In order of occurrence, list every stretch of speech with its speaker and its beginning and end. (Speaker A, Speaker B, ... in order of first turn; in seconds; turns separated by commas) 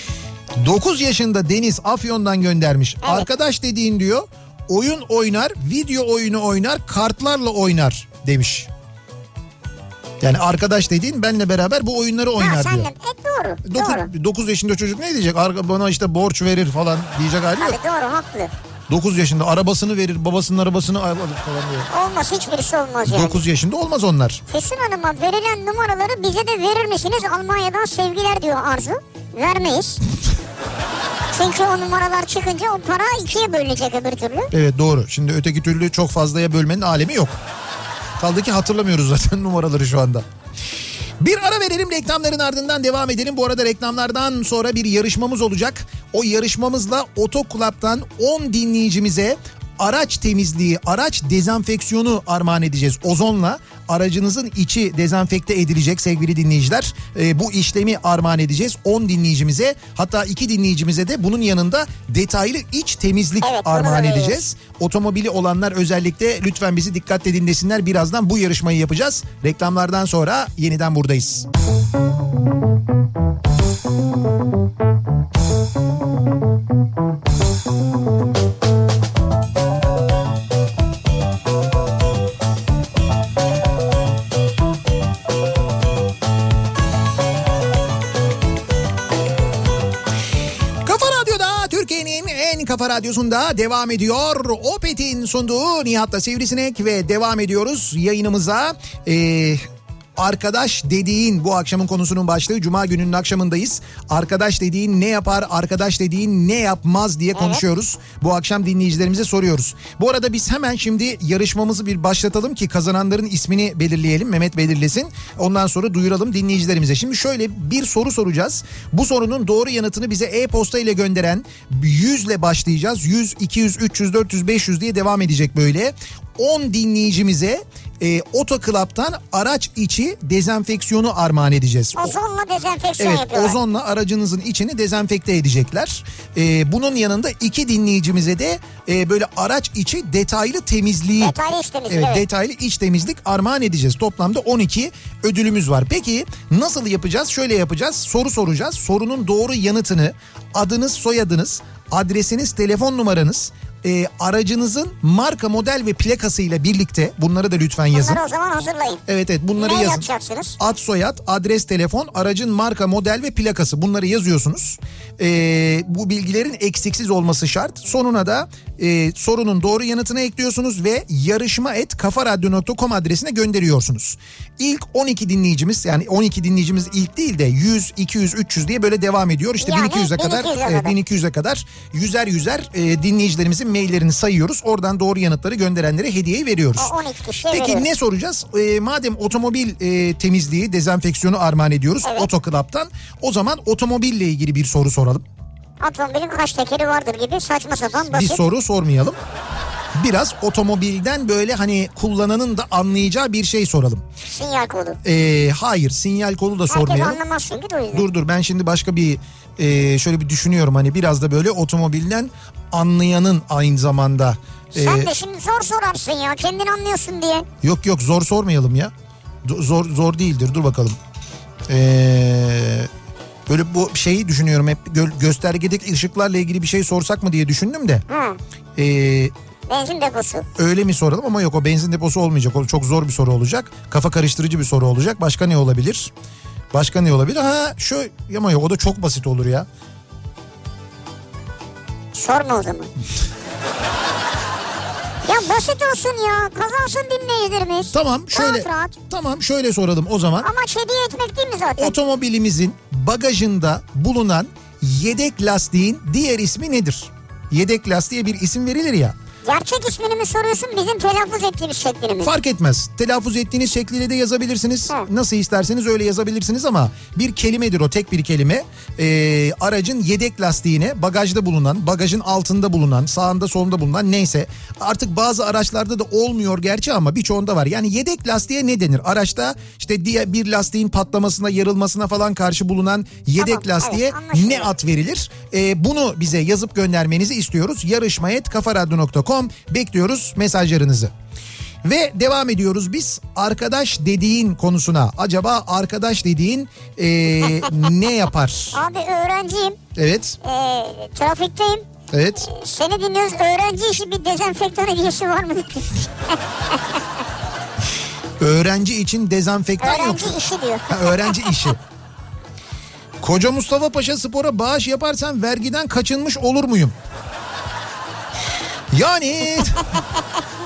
Speaker A: 0.6-8.7, Speaker B: 3.0-3.3, Speaker A: 10.2-12.9, Speaker B: 12.4-14.1, Speaker A: 13.7-17.8, Speaker B: 17.6-18.5, Speaker A: 18.9-21.9, Speaker B: 21.9-23.4, Speaker A: 23.1-24.4, Speaker B: 24.5-30.0, Speaker B: 31.3-34.5, Speaker A: 34.5-37.4, Speaker A: 38.2-40.2, Speaker A: 41.2-71.5, Speaker B: 63.4-64.4, Speaker A: 90.8-99.6, Speaker A: 100.2-132.2, Speaker B: 107.3-107.6, Speaker B: 131.9-133.6, Speaker A: 133.0-141.3, Speaker B: 141.2-142.2, Speaker A: 141.9-158.2, Speaker B: 157.9-159.0, Speaker A: 159.1-160.1, Speaker B: 159.6-160.6, Speaker A: 160.6-186.9, Speaker B: 179.6-180.9, Speaker B: 186.8-187.9, Speaker A: 187.5-195.2, Speaker B: 192.0-192.3, Speaker B: 195.8-198.4, Speaker A: 198.1-199.2, Speaker A: 199.9-204.0, Speaker B: 204.2-205.0, Speaker A: 205.0-207.2, Speaker B: 206.7-208.1, Speaker A: 207.9-215.1, Speaker B: 214.7-217.5, Speaker A: 217.6-218.9, Speaker A: 219.4-221.0, Speaker A: 221.7-222.9, Speaker A: 223.5-228.0, Speaker B: 228.1-228.4, Speaker A: 228.8-229.3, Speaker B: 229.7-230.5, Speaker A: 230.6-236.1, Speaker A: 236.7-239.7, Speaker B: 242.1-242.9, Speaker B: 245.2-249.0, Speaker A: 247.9-250.5, Speaker B: 250.4-251.9, Speaker A: 251.8-259.1, Speaker B: 259.4-262.3, Speaker A: 262.2-291.1, Speaker B: 283.4-284.7, Speaker A: 291.8-298.8, Speaker B: 297.6-297.9, Speaker B: 298.7-299.8, Speaker A: 299.9-300.4, Speaker B: 300.4-307.0, Speaker A: 302.1-302.5, Speaker A: 308.4-310.4, Speaker B: 309.8-311.7, Speaker A: 310.9-311.8, Speaker A: 313.2-316.9, Speaker A: 318.9-320.0, Speaker B: 319.9-320.4